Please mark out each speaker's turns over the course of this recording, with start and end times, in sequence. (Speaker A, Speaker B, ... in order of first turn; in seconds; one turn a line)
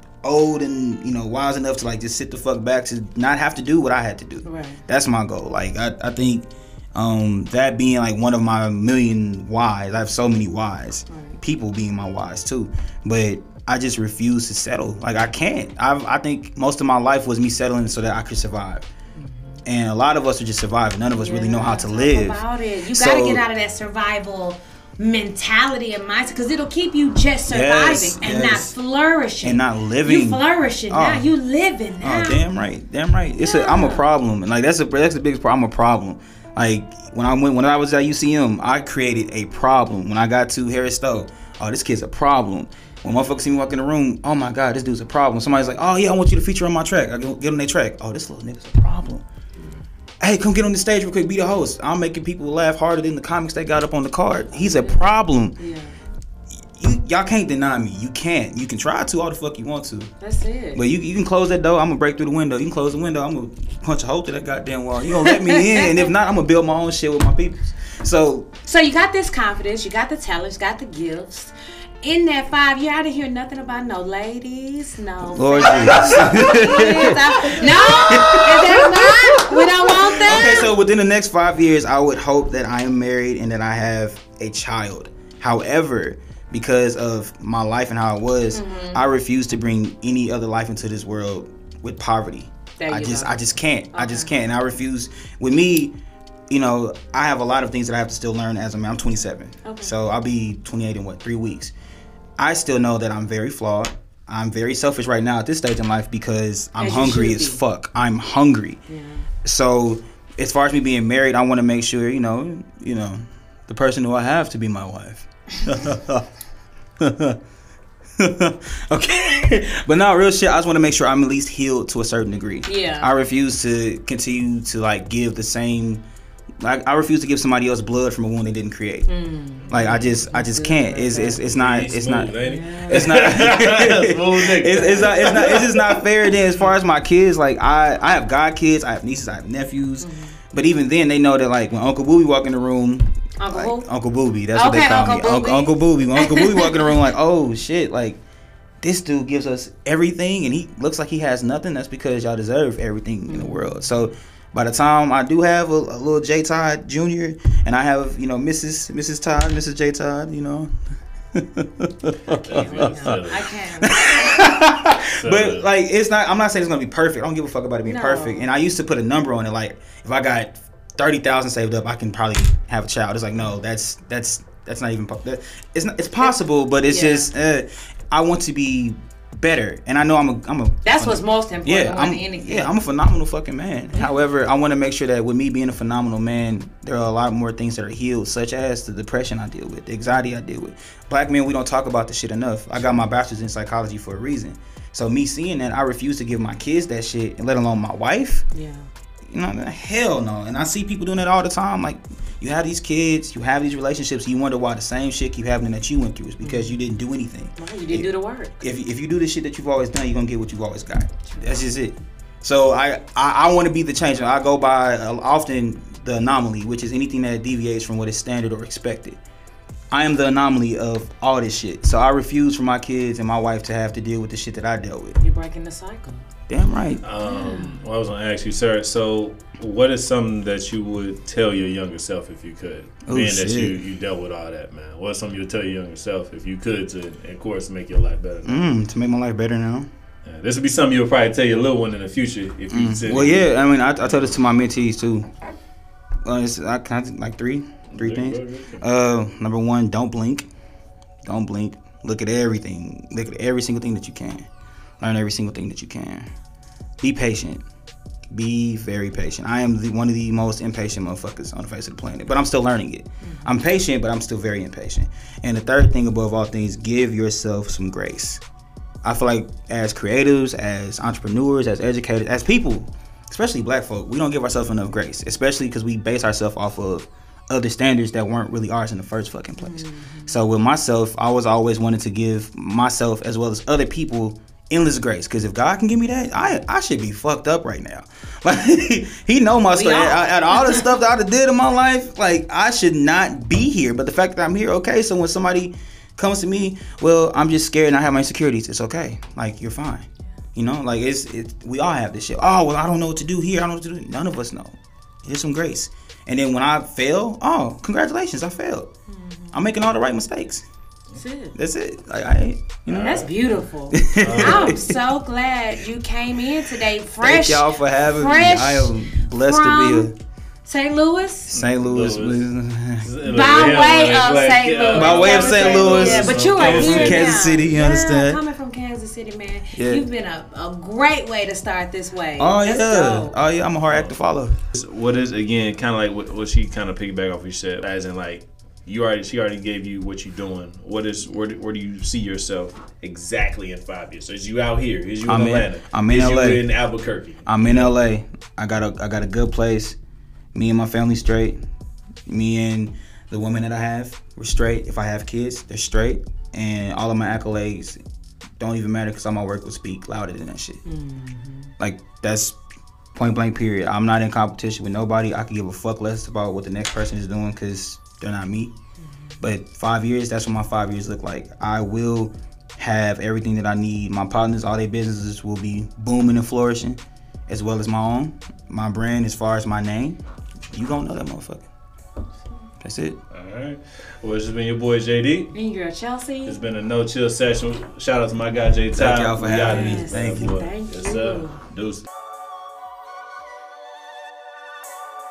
Speaker A: 0.2-18.9
Speaker B: 4.4-4.8
Speaker B: 11.1-11.4
Speaker B: 19.1-19.6
Speaker A: 19.6-23.4
Speaker B: 21.1-32.4
Speaker A: 27.5-28.7
Speaker A: 29.4-31.3
Speaker A: 32.0-49.2
Speaker B: 33.4-34.1
Speaker A: 50.2-55.5
Speaker B: 54.5-55.9
Speaker A: 56.8-60.1
Speaker B: 60.2-60.8
Speaker A: 60.7-68.5
Speaker B: 65.2-66.0
Speaker B: 68.7-80.7
Speaker A: 75.3-95.9
Speaker B: 88.5-89.0
Speaker B: 92.8-93.4
Speaker B: 93.9-94.3
Speaker A: 96.5-101.7
Speaker B: 99.6-99.9
Speaker A: 102.4-108.8
Speaker B: 106.8-107.6
Speaker B: 108.9-109.2
Speaker A: 109.4-116.2
Speaker A: 117.0-117.3
Speaker A: 118.2-126.0
Speaker B: 122.6-123.1
Speaker A: 126.6-129.1
Speaker B: 129.1-131.4
Speaker A: 129.7-148.2
Speaker C: 131.4-136.3
Speaker B: 132.4-133.3
Speaker B: 134.7-135.3
Speaker B: 140.0-140.3
Speaker B: 143.4-143.8
Speaker B: 144.5-146.9
Speaker A: 148.8-160.7
Speaker B: 153.3-154.0
Speaker A: 161.3-163.2
Speaker C: 162.4-163.5
Speaker B: 162.4-163.9
Speaker A: 163.8-198.4
Speaker C: 165.1-165.7
Speaker B: 167.8-168.5
Speaker B: 176.8-177.3
Speaker B: 180.8-182.7
Speaker B: 198.5-198.9
Speaker A: 199.3-208.1
Speaker B: 206.4-206.8
Speaker B: 207.6-208.6
Speaker A: 208.6-219.2
Speaker A: 219.9-225.2
Speaker B: 225.2-226.2
Speaker A: 226.5-227.0
Speaker C: 227.0-238.7
Speaker B: 227.2-227.8
Speaker A: 233.1-233.8
Speaker A: 238.4-239.9
Speaker C: 240.2-243.6
Speaker A: 242.7-245.3
Speaker A: 246.2-250.5
Speaker C: 247.9-248.8
Speaker A: 251.2-254.5
Speaker A: 255.0-256.3
Speaker A: 257.0-257.6
Speaker A: 258.3-268.4
Speaker B: 263.2-263.5
Speaker A: 269.0-308.9
Speaker B: 279.6-280.4
Speaker B: 289.7-290.9
Speaker B: 309.1-309.6
Speaker A: 309.5-310.6
Speaker B: 311.1-311.5
Speaker A: 311.5-313.3
Speaker C: 312.8-313.5
Speaker B: 313.0-320.1
Speaker A: 313.9-314.9
Speaker C: 314.1-314.8
Speaker A: 317.2-320.1
Speaker B: 320.6-321.5
Speaker A: 321.5-323.7
Speaker C: 321.5-322.5
Speaker C: 323.0-327.4
Speaker B: 323.3-333.4
Speaker A: 324.9-328.4
Speaker A: 329.7-330.1
Speaker A: 332.4-334.6
Speaker C: 334.7-347.9
Speaker A: 345.2-346.7
Speaker A: 347.4-350.0
Speaker A: 350.5-351.6
Speaker A: 352.3-358.0
Speaker A: 358.6-360.8
Speaker B: 360.9-361.7
Speaker A: 361.8-362.6
Speaker A: 363.1-368.7
Speaker B: 369.0-369.3
Speaker A: 369.4-380.2
Speaker A: 380.7-381.7
Speaker A: 382.8-383.2
Speaker C: 383.3-385.5
Speaker B: 385.5-386.6
Speaker C: 386.4-392.0
Speaker A: 388.9-390.6
Speaker B: 389.7-391.6